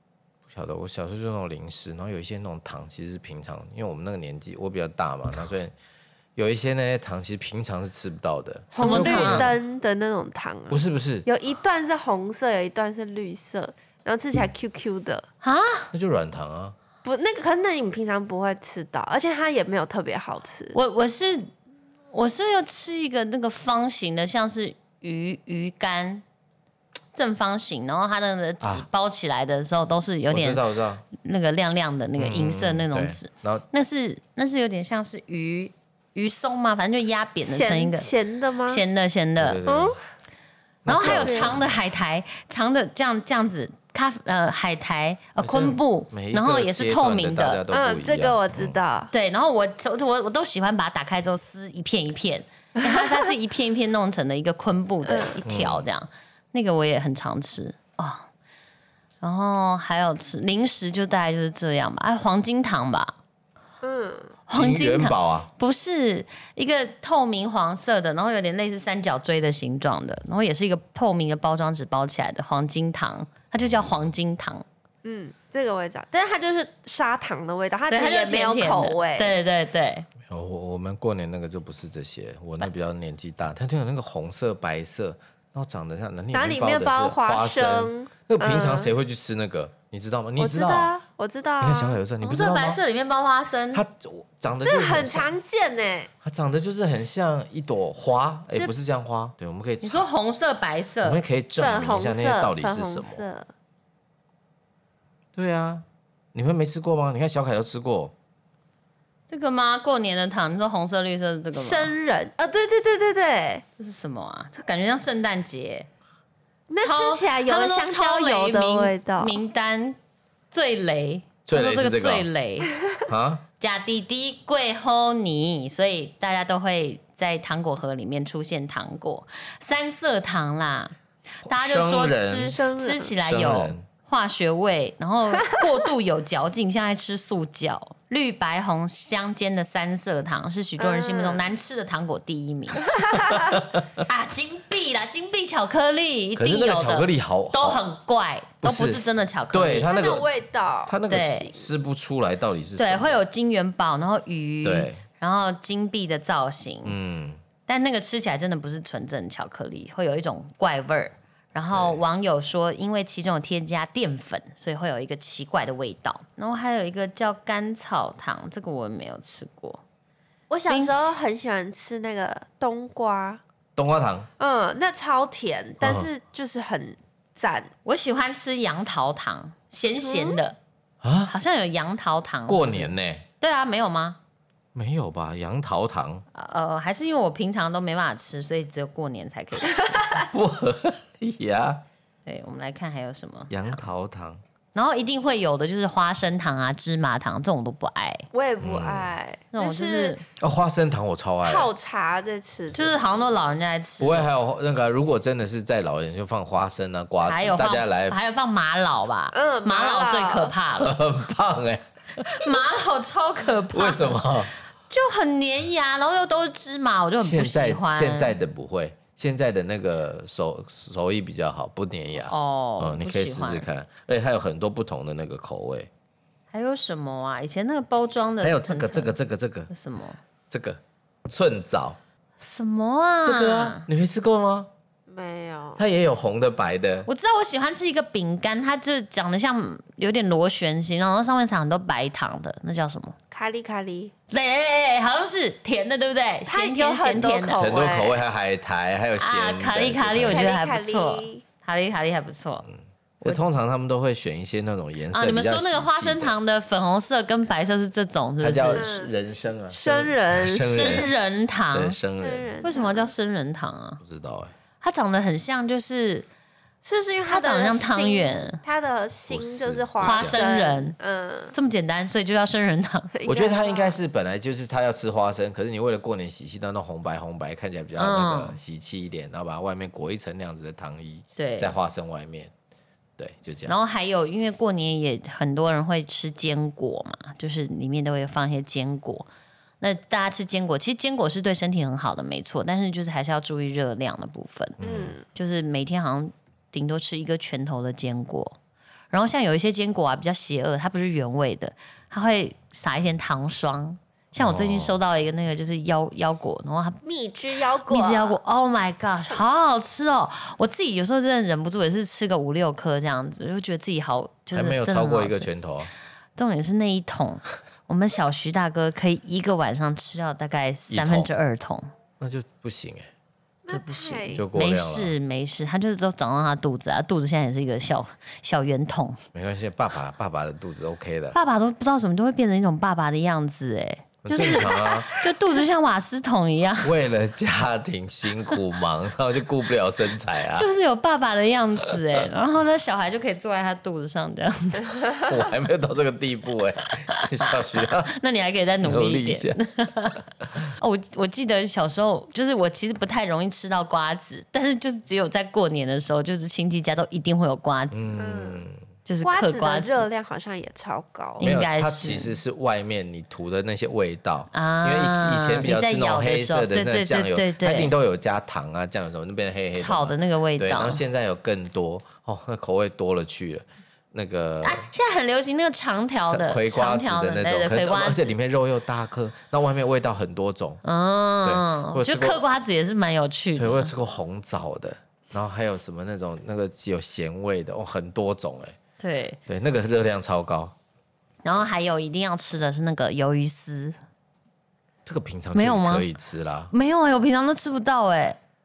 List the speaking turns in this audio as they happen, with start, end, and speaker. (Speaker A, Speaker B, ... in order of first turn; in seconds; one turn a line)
Speaker A: 0.5-5.7
Speaker A: 6.3-9.5
Speaker B: 8.7-9.5
Speaker C: 8.7-15.2
Speaker A: 10.7-11.2
Speaker B: 15.4-15.9
Speaker A: 15.9-16.7
Speaker C: 17.0-20.7
Speaker B: 20.7-21.5
Speaker B: 22.1-26.2
Speaker B: 27.1-30.6
Speaker A: 28.6-28.9
Speaker A: 30.3-31.0
Speaker B: 31.1-38.1
Speaker A: 32.2-33.6
Speaker C: 37.4-38.8
Speaker B: 38.7-39.6
Speaker A: 39.4-40.0
Speaker C: 39.6-40.0
Speaker A: 40.8-41.8
Speaker B: 40.9-47.6
Speaker C: 41.0-41.5
Speaker A: 45.4-48.8
Speaker C: 47.7-49.1
Speaker B: 49.1-58.3
Speaker C: 52.8-53.2
Speaker C: 55.1-55.4
Speaker A: 55.4-55.9
Speaker B: 59.2-63.1
Speaker C: 63.8-64.3
Speaker B: 64.5-74.6
Speaker A: 64.5-65.5
Speaker C: 75.0-79.3
Speaker B: 77.9-80.1
Speaker A: 80.3-90.9
Speaker C: 86.3-88.9
Speaker C: 90.4-92.0
Speaker A: 91.6-92.8
Speaker B: 92.2-93.8
Speaker A: 93.7-95.3
Speaker C: 94.6-96.1
Speaker A: 96.2-100.1
Speaker B: 99.8-101.2
Speaker A: 101.0-103.2
Speaker C: 101.6-103.5
Speaker A: 105.3-108.1
Speaker B: 109.3-111.9
Speaker C: 111.5-113.6
Speaker B: 113.8-115.9
Speaker C: 116.7-119.4
Speaker B: 116.8-120.0
Speaker B: 120.5-122.7
Speaker A: 121.5-122.3
Speaker A: 123.1-123.4
Speaker B: 123.6-130.9
Speaker A: 131.4-132.6
Speaker B: 131.4-143.2
Speaker C: 132.5-133.1
Speaker A: 133.2-133.8
Speaker C: 140.8-141.4
Speaker C: 142.9-143.4
Speaker A: 143.5-143.8
Speaker B: 143.9-149.9
Speaker A: 146.3-147.8
Speaker A: 148.6-150.3
Speaker C: 149.9-150.9
Speaker A: 150.8-153.2
Speaker B: 151.1-151.5
Speaker B: 152.8-156.9
Speaker A: 154.6-155.0
Speaker A: 156.8-157.4
Speaker B: 157.7-169.8
Speaker A: 161.7-162.0
Speaker C: 170.5-173.4
Speaker B: 170.7-171.2
Speaker A: 173.8-174.3
Speaker C: 174.4-177.7
Speaker A: 175.8-176.1
Speaker B: 177.8-180.6
Speaker C: 180.0-180.4
Speaker A: 181.0-181.3
Speaker B: 181.3-184.2
Speaker A: 182.5-183.2
Speaker A: 184.7-186.2
Speaker B: 186.3-190.2
Speaker A: 190.1-191.8
Speaker B: 192.2-193.8
Speaker A: 193.5-194.4
Speaker B: 194.7-198.3
Speaker C: 198.3-200.1
Speaker A: 198.6-199.1
Speaker B: 199.5-200.2
Speaker A: 200.4-201.7
Speaker C: 201.4-202.9
Speaker B: 202.7-204.3
Speaker A: 204.0-208.2
Speaker B: 207.2-211.0
Speaker C: 209.3-210.5
Speaker A: 210.8-212.5
Speaker B: 212.2-214.3
Speaker A: 213.7-214.5
Speaker B: 214.9-218.3
Speaker A: 217.2-225.9
Speaker B: 222.2-223.7
Speaker B: 226.5-229.1
Speaker A: 228.4-229.7
Speaker B: 229.7-230.2
Speaker A: 230.5-232.0
Speaker B: 232.4-233.9
Speaker A: 233.2-234.7
Speaker C: 235.1-235.8
Speaker A: 235.8-237.1
Speaker B: 237.1-243.2
Speaker C: 243.3-244.1
Speaker B: 244.3-247.7
Speaker C: 246.5-248.2
Speaker A: 247.6-250.4
Speaker B: 249.2-252.7
Speaker C: 250.3-251.4
Speaker A: 252.7-256.3
Speaker B: 255.1-258.9
Speaker A: 258.4-261.1
Speaker C: 258.7-259.1
Speaker C: 259.7-261.1
Speaker B: 260.7-262.0
Speaker A: 261.7-262.6
Speaker C: 262.2-263.1
Speaker B: 262.6-264.0
Speaker A: 264.0-264.5
Speaker B: 264.8-266.2
Speaker C: 266.8-271.5
Speaker B: 267.2-268.6
Speaker A: 269.3-270.4
Speaker B: 270.0-270.9
Speaker B: 271.5-273.1
Speaker C: 273.1-274.0
Speaker A: 273.2-282.5
Speaker B: 278.0-278.6
Speaker B: 281.4-281.7
Speaker A: 283.2-283.8
Speaker B: 283.7-289.3
Speaker B: 289.8-294.8
Speaker A: 294.8-295.1
Speaker C: 294.8-295.2
Speaker B: 295.3-298.6
Speaker B: 299.1-307.0
Speaker A: 304.4-305.0
Speaker C: 307.0-308.4
Speaker B: 307.9-315.5
Speaker A: 314.5-315.9
Speaker B: 316.4-321.9
Speaker A: 320.9-321.3
Speaker A: 322.2-323.1
Speaker C: 323.6-324.4
Speaker B: 323.7-329.2
Speaker A: 324.3-325.1
Speaker A: 329.3-331.4
Speaker B: 331.3-336.9
Speaker A: 334.2-335.1
Speaker C: 334.6-334.9
Speaker A: 336.8-340.7
Speaker B: 340.5-345.2
Speaker A: 345.2-348.1
Speaker B: 348.1-350.2
Speaker A: 348.8-349.6
Speaker B: 350.8-358.2
Speaker A: 357.9-358.8
Speaker C: 358.2-358.6
Speaker B: 359.1-360.1
Speaker C: 359.2-361.4
Speaker B: 361.4-362.3
Speaker A: 361.4-374.8
Speaker B: 364.5-367.9
Speaker B: 369.7-371.0
Speaker B: 374.6-378.3
Speaker A: 376.3-380.8
Speaker B: 380.8-383.9
Speaker A: 381.4-382.4
Speaker A: 383.6-388.8
Speaker B: 389.0-389.4
Speaker A: 389.5-390.7
Speaker B: 391.4-394.0
Speaker A: 395.0-396.7
Speaker B: 395.5-396.1
Speaker B: 396.7-398.4